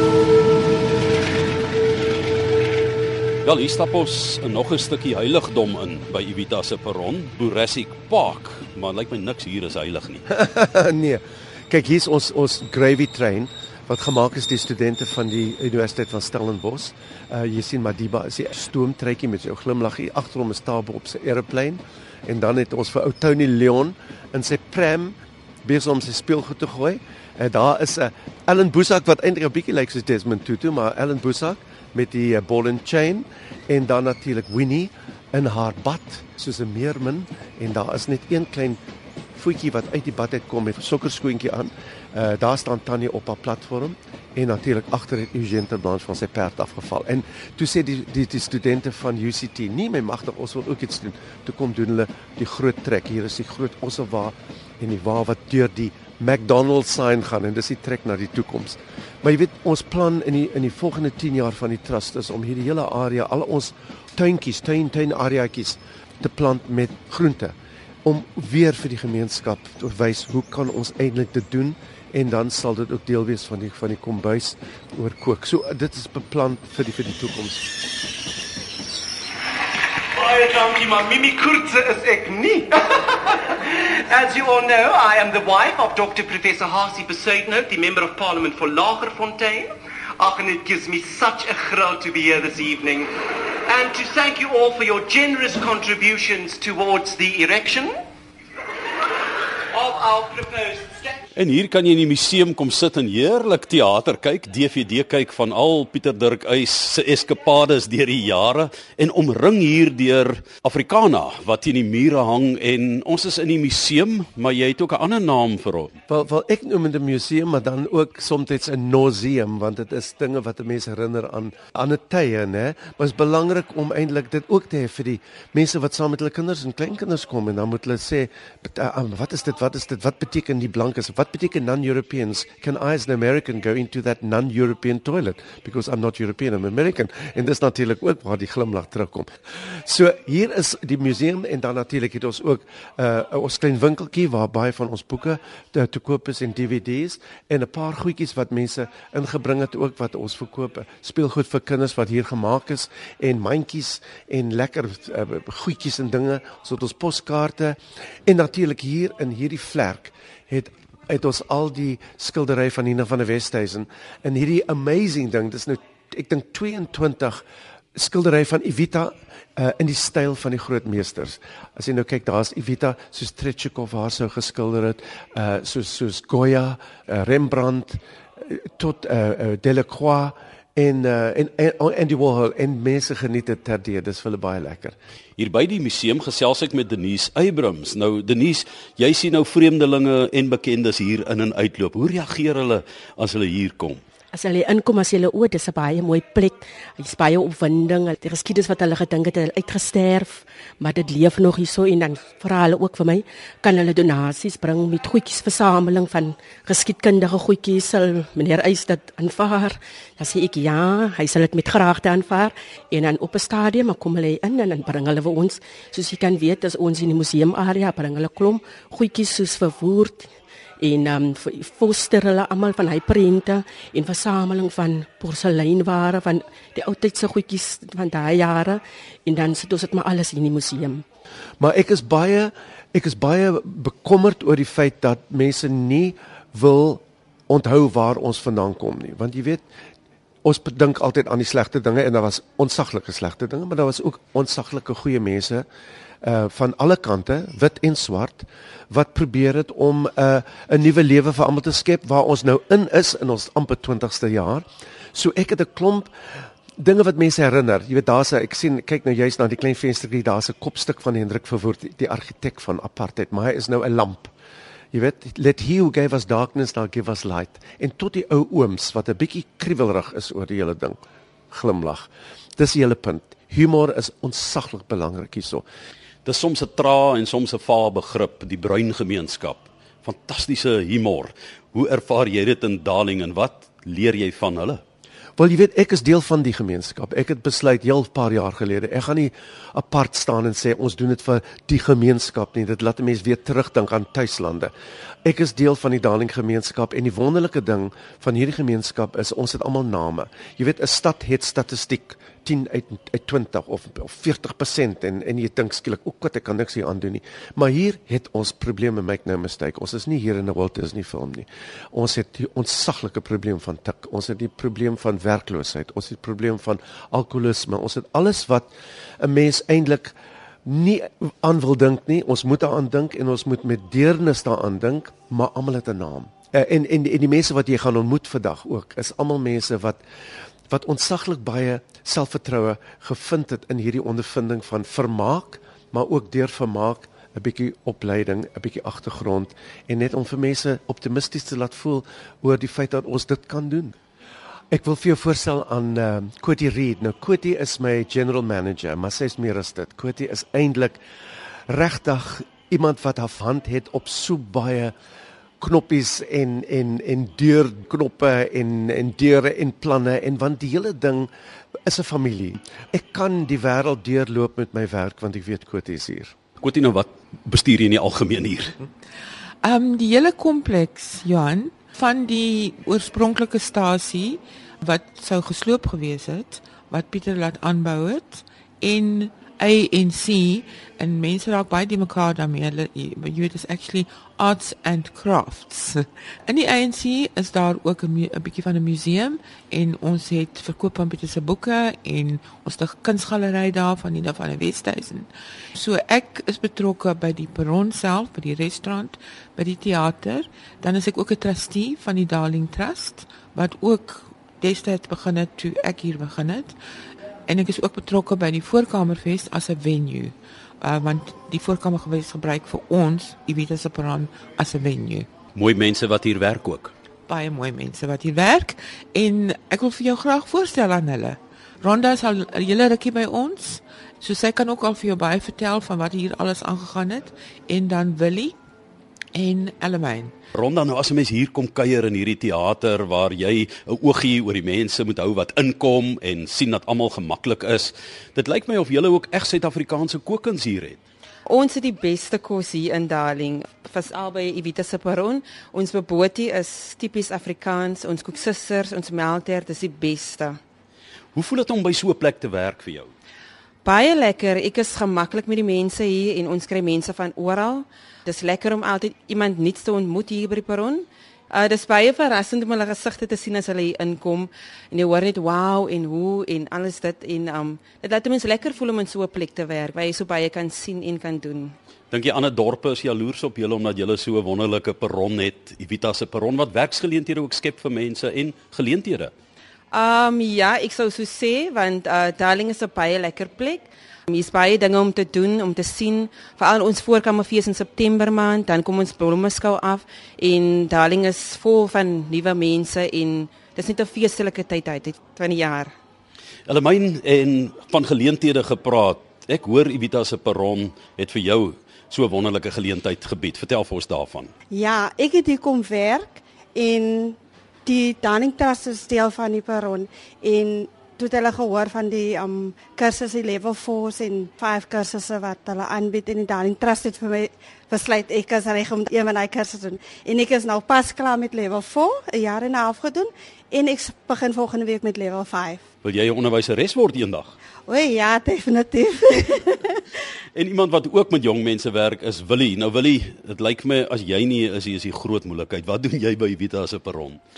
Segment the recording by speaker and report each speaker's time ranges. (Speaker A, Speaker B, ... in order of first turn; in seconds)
Speaker A: 3.4-10.2, 101.3-116.0, 185.4-194.0, 276.2-284.8, 366.6-368.7, 415.5-416.9, 430.5-441.0, 451.3-453.1, 472.1-479.3, 496.7-504.5, 526.0-527.5, 530.5-537.4
Speaker B: 10.3-38.8, 39.3-77.7, 116.1-167.4, 167.9-184.9, 231.6-239.6, 240.4-245.7, 246.2-256.1, 256.8-264.3, 264.9-271.0, 271.5-275.6, 285.4-294.7, 295.2-320.1, 320.6-330.0, 330.7-343.9, 344.7-351.0, 351.7-354.9, 355.6-361.3, 361.9-366.3
Speaker C: 80.1-93.1, 93.7-98.0, 99.7-101.0
Speaker D: 194.3-231.0
Speaker E: 369.6-406.8, 407.5-415.3, 417.3-428.6, 429.3-430.3
Speaker F: 441.5-450.6, 453.8-471.8, 479.9-495.9
Speaker G: 504.7-525.9, 527.9-530.0